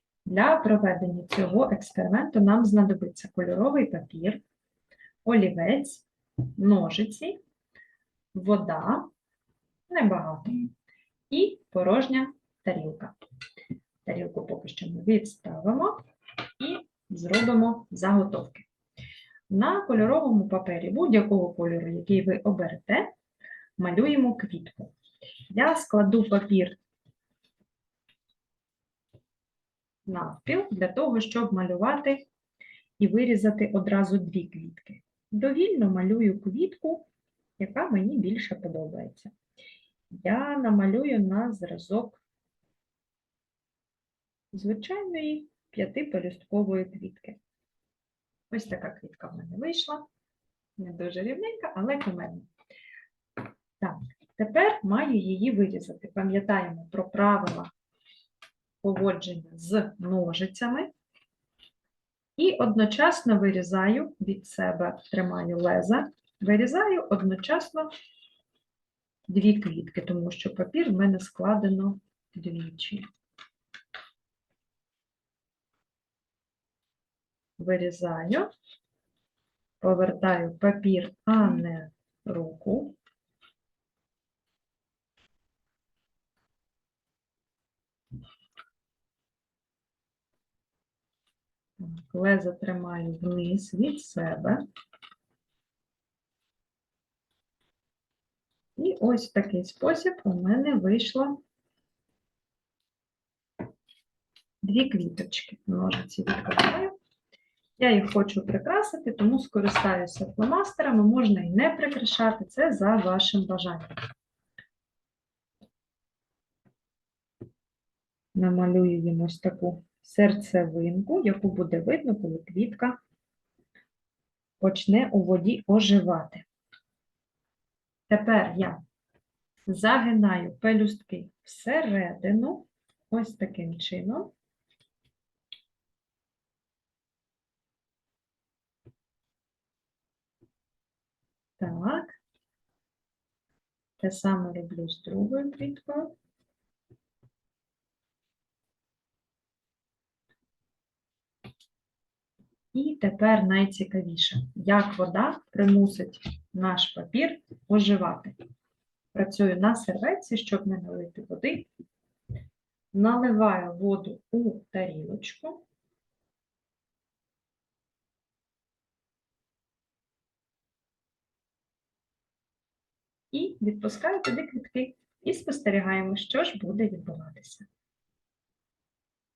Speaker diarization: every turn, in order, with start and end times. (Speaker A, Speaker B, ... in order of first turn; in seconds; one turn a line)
Speaker A: 0.2-4.4
Speaker A: 5.2-6.0
Speaker A: 6.5-7.4
Speaker A: 8.3-9.1
Speaker A: 9.9-10.7
Speaker A: 11.3-13.1
Speaker A: 14.0-16.0
Speaker A: 16.6-18.7
Speaker A: 19.5-23.1
Speaker A: 23.8-24.9
Speaker A: 25.5-26.8
Speaker A: 30.1-32.3
Speaker A: 33.0-39.3
Speaker A: 40.1-42.2
Speaker A: 44.5-47.4
Speaker A: 48.5-50.0
Speaker A: 50.8-52.5
Speaker A: 53.8-57.7
Speaker A: 58.8-60.9
Speaker A: 62.4-67.9
Speaker A: 69.3-73.0
Speaker A: 77.6-78.5
Speaker A: 79.8-83.0
Speaker A: 91.8-94.6
Speaker A: 98.8-101.4
Speaker A: 104.6-106.9
Speaker A: 107.8-114.0
Speaker A: 118.3-123.0
Speaker A: 124.6-126.5
Speaker A: 128.1-128.8
Speaker A: 129.7-134.3
Speaker A: 141.6-142.2
Speaker A: 144.0-146.1
Speaker A: 152.7-158.3
Speaker A: 159.1-161.7
Speaker A: 162.9-165.6
Speaker A: 173.3-177.7